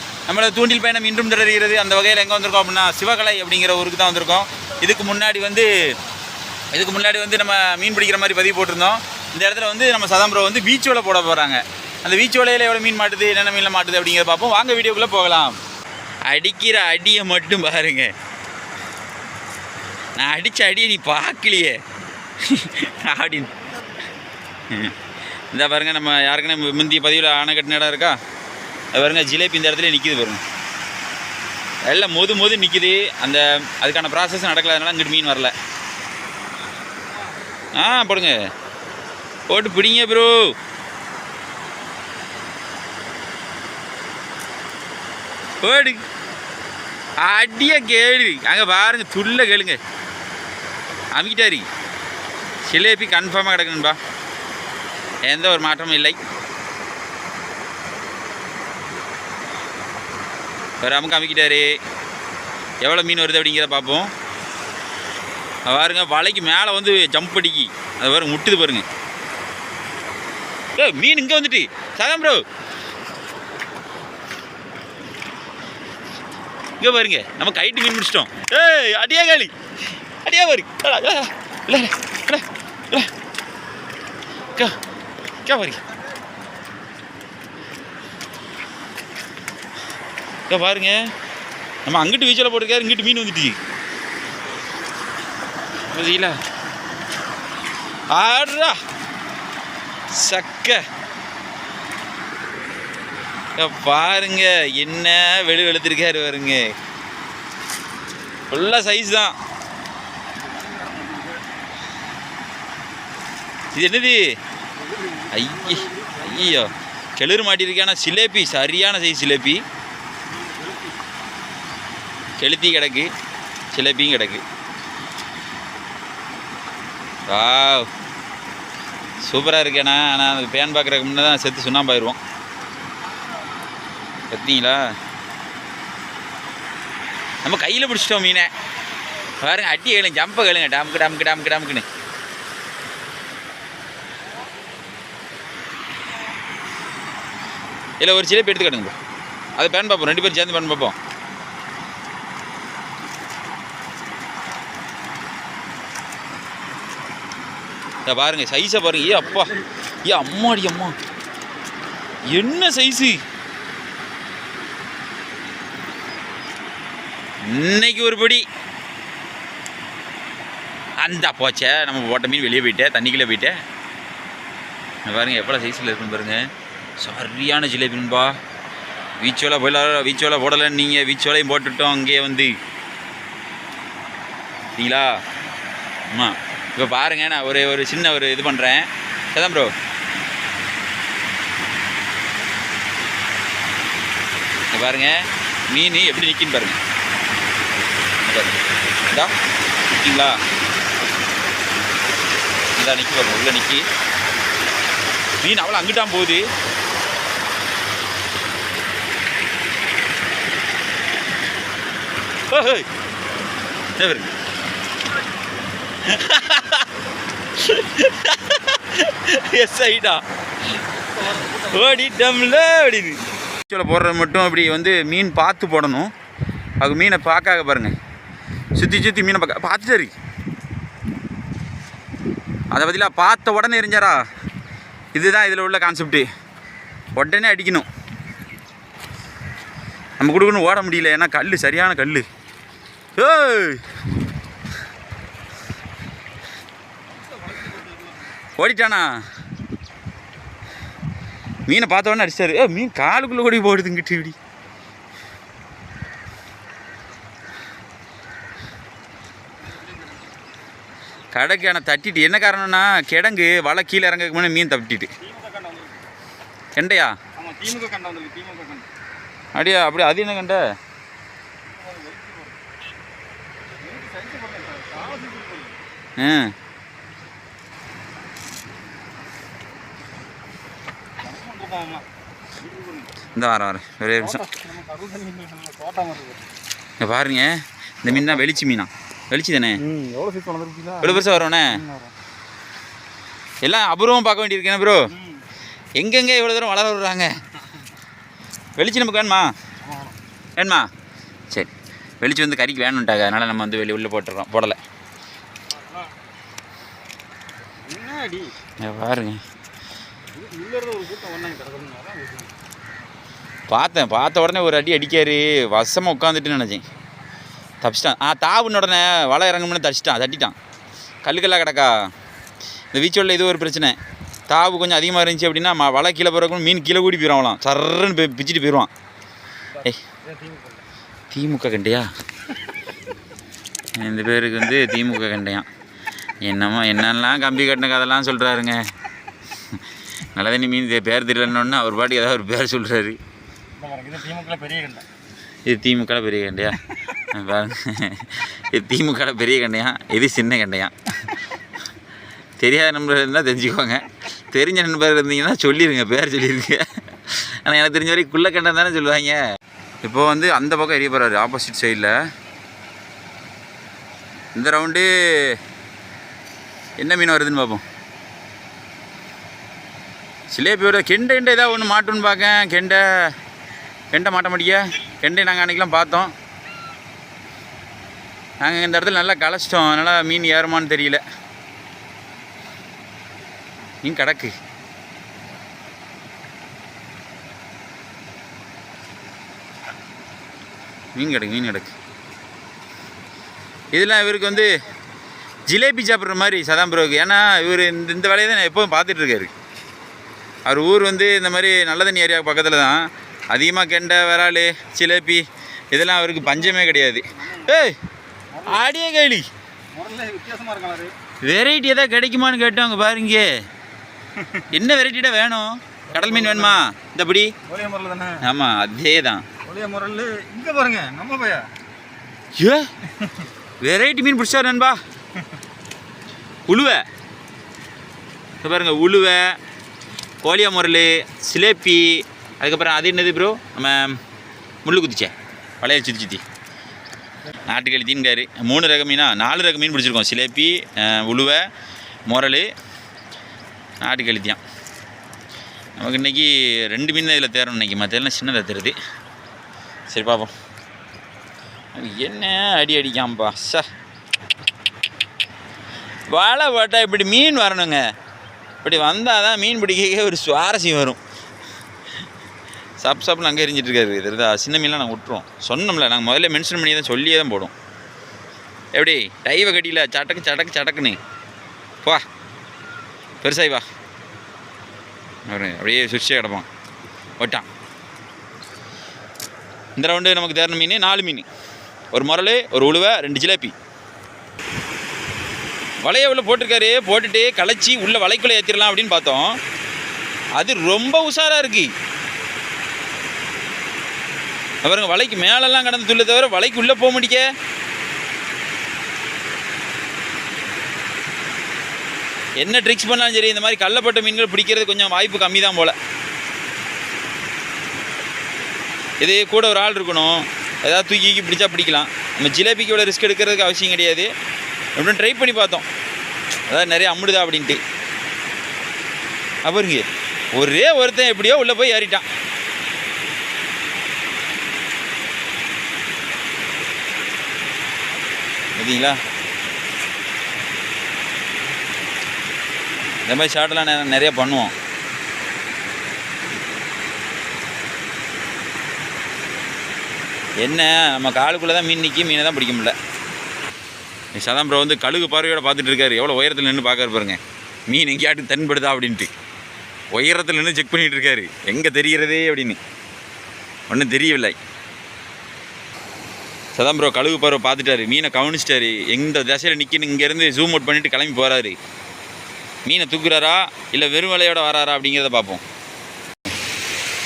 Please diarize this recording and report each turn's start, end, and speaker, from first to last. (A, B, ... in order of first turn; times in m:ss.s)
0:00.3-0:05.9 A
0:06.7-0:15.6 A
0:16.3-0:18.1 A
0:20.2-0:21.8 A
0:22.4-0:23.5 A
0:24.7-0:24.9 A
0:25.5-0:28.2 A
0:28.9-0:30.4 A
0:31.8-0:35.5 A
0:37.8-0:38.4 A
0:39.5-0:40.5 A
0:45.6-0:46.0 A
0:47.2-0:49.8 A
0:51.1-0:51.6 A
0:52.6-0:54.0 A
0:55.2-0:56.2 A
1:00.8-1:01.8 A
1:02.8-1:04.1 A
1:05.7-1:08.8 A
1:10.8-1:12.4 A
1:16.8-1:19.5 A
1:20.2-1:23.1 A
1:25.4-1:25.8 A
1:30.5-1:31.1 A
1:31.8-1:33.6 A
1:35.9-1:36.4 A
1:38.1-1:38.8 A
1:40.1-1:40.8 A
1:43.6-1:46.7 A
1:48.5-1:49.4 A
1:50.4-1:51.4 B
1:53.7-1:54.2 A
1:54.9-1:56.3 B
1:55.3-1:59.6 A
2:00.3-2:01.0 B
2:02.4-2:03.1 A
2:03.7-2:04.4 A
2:07.3-2:07.9 A
2:09.2-2:12.2 A
2:14.3-2:14.8 A
2:17.4-2:18.5 A
2:19.4-2:21.8 A
2:28.0-2:29.0 A
2:29.6-2:31.0 A
2:38.0-2:41.0 A
2:42.3-2:43.2 A
2:47.4-2:48.4 A
2:51.0-2:53.6 A
2:55.1-2:56.4 A
2:57.0-2:58.4 A
2:59.2-3:02.6 A
3:04.7-3:05.2 A
3:06.1-3:09.7 A
3:14.7-3:16.8 A
3:18.2-3:18.6 A
3:19.1-3:19.3 A
3:20.0-3:20.4 A
3:22.8-3:23.8 A
3:25.4-3:26.4 A
3:32.5-3:32.9 A
3:34.0-3:34.3 A
3:36.0-3:36.8 A
3:37.6-3:40.2 A
3:41.2-3:46.1 A
3:46.8-3:47.9 A
3:48.7-3:50.1 A
3:52.7-3:54.2 A
3:55.1-3:56.3 A
3:57.1-3:57.9 A
4:00.2-4:02.2 A
4:03.2-4:03.8 A
4:07.4-4:08.0 B
4:08.6-4:09.2 A
4:11.7-4:14.4 A
4:21.3-4:25.1 A
4:25.2-4:26.1 B
4:26.7-4:27.1 A
4:27.4-4:28.9 B
4:29.5-4:30.6 A
4:31.8-4:32.6 B
4:33.8-4:35.8 B
4:36.2-4:36.5 A
4:41.2-4:43.1 B
4:43.4-4:44.4 A
4:44.2-4:46.5 B
4:47.0-4:49.8 A
4:49.8-4:52.1 B
4:51.0-4:51.8 A
4:53.6-4:55.1 A
4:55.1-4:55.4 B
4:56.0-4:57.3 A
4:58.8-4:59.5 A
4:59.8-5:00.1 B
5:00.6-5:00.9 A
5:01.5-5:04.8 A
5:05.7-5:06.1 B
5:07.8-5:08.5 B
5:08.8-5:09.4 A
5:10.3-5:12.5 B
5:13.7-5:16.8 A
5:17.8-5:20.5 A
5:21.2-5:22.1 A
5:22.9-5:24.0 A
5:24.5-5:28.9 A
5:30.2-5:30.8 B
5:31.3-5:32.1 A
5:34.0-5:35.7 A
5:36.4-5:38.8 A
5:40.3-5:43.2 A
5:43.8-5:45.0 B
5:45.6-5:50.9 A
5:52.6-5:59.4 A
6:00.0-6:02.2 A
6:04.5-6:05.6 A
6:07.0-6:07.8 A
6:10.5-6:13.3 A
6:14.1-6:16.3 A
6:18.6-6:21.2 A
6:24.0-6:24.5 A
6:31.1-6:31.9 A
6:33.9-6:34.8 A
6:35.7-6:39.5 A
6:40.6-6:48.0 A
6:46.4-6:47.8 B
6:48.5-6:48.8 B
6:48.6-6:49.5 A
6:49.9-6:51.1 B
6:51.4-6:53.6 A
6:54.7-6:57.5 A
6:56.1-6:56.8 B
6:57.7-6:58.4 B
6:58.4-6:59.4 A
6:59.6-7:01.7 B
7:02.6-7:02.9 A
7:03.8-7:05.0 A
7:06.7-7:07.0 A
7:08.6-7:09.6 A
7:10.4-7:14.2 A
7:14.8-7:16.4 A
7:17.7-7:21.6 A
7:22.3-7:22.7 A
7:24.0-7:24.6 A
7:26.0-7:29.0 A
7:30.1-7:30.5 A
7:31.9-7:33.8 A
7:36.3-7:38.0 A
7:38.8-7:41.2 A
7:43.0-7:47.7 A
7:48.9-7:51.2 A
7:53.4-7:53.8 A
7:55.5-7:56.7 A
7:57.4-7:57.7 A
8:00.0-8:01.4 A
8:02.1-8:03.7 A
8:06.0-8:09.6 A
8:10.6-8:11.9 A
8:14.8-8:17.4 A
8:22.6-8:25.9 A
8:29.2-8:34.3 A
8:35.0-8:35.8 A
8:36.7-8:37.8 A
8:39.6-8:40.0 A
8:40.5-8:42.2 A
8:48.7-8:49.2 A
8:53.2-8:54.7 A
9:00.6-9:03.0 A
9:04.4-9:09.3 A
9:10.1-9:12.8 A
9:13.9-9:14.6 A
9:16.7-9:21.8 A
9:22.8-9:25.6 A